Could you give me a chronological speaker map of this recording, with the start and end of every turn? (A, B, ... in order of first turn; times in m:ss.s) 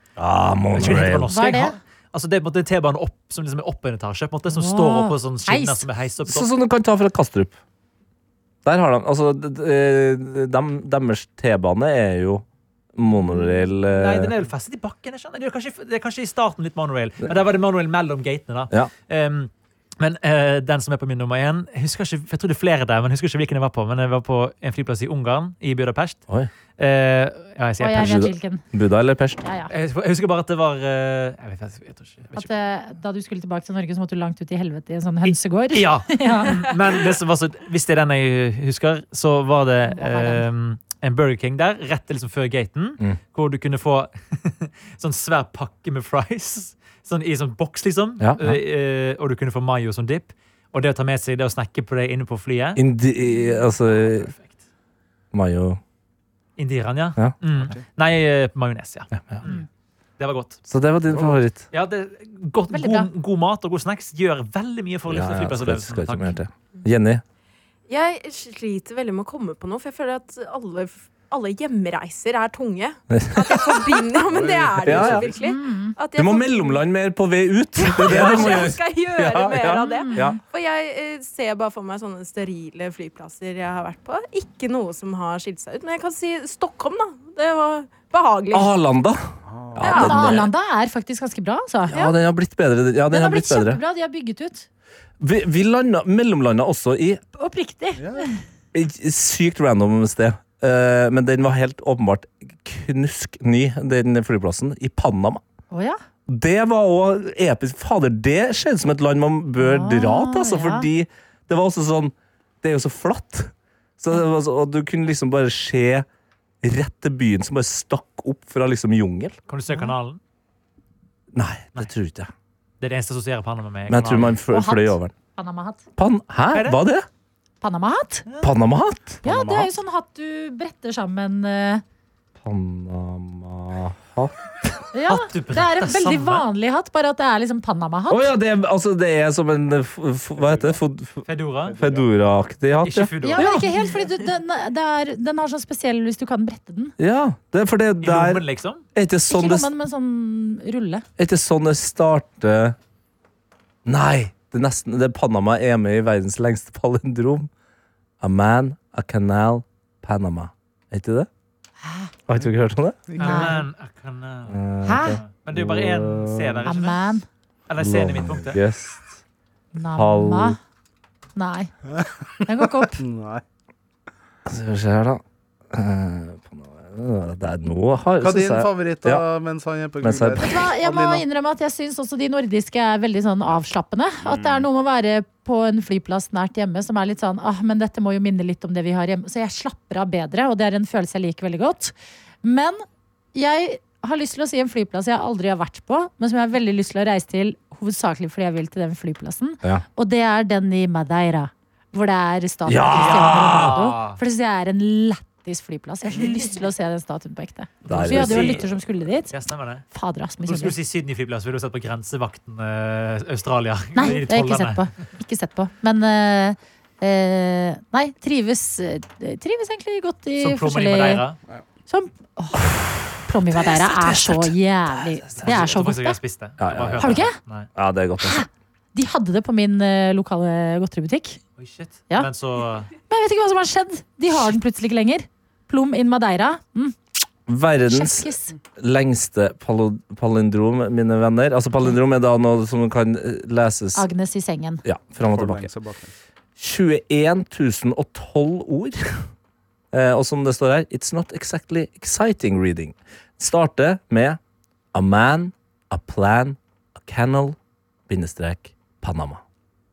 0:00.2-0:01.3 A
0:00.7-0:06.5 B
0:01.2-0:01.8 C
0:04.5-0:05.8 C
0:06.2-0:07.6 A
0:08.6-0:12.4 A
0:13.0-0:14.3 A
0:13.9-0:26.2 B
0:26.8-0:28.3 B
0:27.8-0:28.6 C
0:28.0-0:29.4 A
0:29.4-0:29.7 C
0:29.7-0:32.5 B
0:32.3-0:37.0 C
0:35.2-0:52.8 B
0:39.9-0:40.4 C
0:48.2-0:48.6 A
0:52.8-0:54.3 A
0:53.9-0:54.5 B
0:55.3-0:55.8 A
0:56.6-0:59.6 B
0:57.6-0:57.8 D
0:59.1-0:59.4 A
1:00.2-1:00.6 B
1:00.7-1:01.7 A
1:01.7-1:06.4 B
1:02.7-1:03.1 C
1:05.1-1:07.2 A
1:07.9-1:16.8 E
1:13.1-1:13.8 A
1:14.2-1:15.4 D
1:14.8-1:15.3 A
1:15.4-1:16.0 C
1:16.1-1:20.4 A
1:17.8-1:28.7 E
1:18.1-1:18.6 D
1:19.8-1:20.4 C
1:28.5-1:30.5 A
1:29.4-1:30.1 D
1:29.8-1:30.2 E
1:29.8-1:32.1 C
1:31.9-1:33.8 A
1:33.1-1:34.7 C
1:35.2-1:37.2 A
1:37.4-1:38.4 C
1:38.0-1:38.3 D
1:38.7-1:45.4 A
1:45.7-1:46.0 C
1:46.3-1:56.0 A
1:49.6-1:50.9 C
1:56.6-1:59.4 A
1:59.5-2:00.2 B
2:01.3-2:02.3 A
2:02.8-2:04.4 B
2:03.9-2:05.1 A
2:04.5-2:05.8 C
2:06.0-2:07.1 A
2:06.5-2:06.8 B
2:07.6-2:08.2 C
2:08.3-2:08.5 B
2:08.4-2:09.7 A
2:09.2-2:11.8 C
2:12.4-2:14.8 A
2:14.9-2:18.3 C
2:15.1-2:16.4 B
2:18.1-2:23.5 A
2:20.4-2:20.8 D
2:21.2-2:21.8 B
2:21.6-2:22.1 D
2:22.8-2:23.6 B
2:23.2-2:26.9 C
2:27.0-2:29.7 A
2:28.0-2:28.8 B
2:29.3-2:31.0 C
2:31.2-2:32.8 A
2:33.8-2:37.5 A
2:38.2-2:41.3 A
2:41.8-2:42.1 C
2:42.3-2:43.0 A
2:43.1-2:43.6 D
2:43.2-2:47.0 B
2:43.2-2:43.6 C
2:44.5-2:46.7 A
2:44.8-2:45.2 C
2:46.6-2:47.2 C
2:47.7-2:48.6 B
2:47.8-2:49.2 A
2:49.7-2:50.6 C
2:49.9-2:50.6 A
2:51.4-2:51.7 C
2:51.9-2:53.4 D
2:52.4-2:53.0 C
2:54.4-2:59.2 A
2:58.2-3:01.2 D
3:00.0-3:00.5 A
3:00.4-3:29.3 C
3:04.2-3:04.6 D
3:22.6-3:23.8 A
3:22.9-3:24.2 B
3:27.8-3:28.7 A
3:28.0-3:28.6 B
3:29.3-3:29.8 B
3:29.9-3:30.8 C
3:30.4-3:34.8 B
3:33.9-3:41.2 C
3:40.4-3:41.4 B
3:41.9-3:46.2 C
3:42.6-3:45.6 A
3:45.4-3:47.7 B
3:46.6-3:48.4 A
3:47.0-3:47.4 C
3:48.2-3:51.4 C
3:51.6-3:52.9 B
3:53.1-3:57.0 C
3:57.5-4:04.0 A
3:57.9-3:58.5 C
4:03.9-4:04.8 C
4:04.8-4:05.7 A
4:05.2-4:06.1 D
4:06.6-4:09.2 A
4:09.9-4:14.4 A
4:14.9-4:17.6 A
4:18.1-4:19.4 A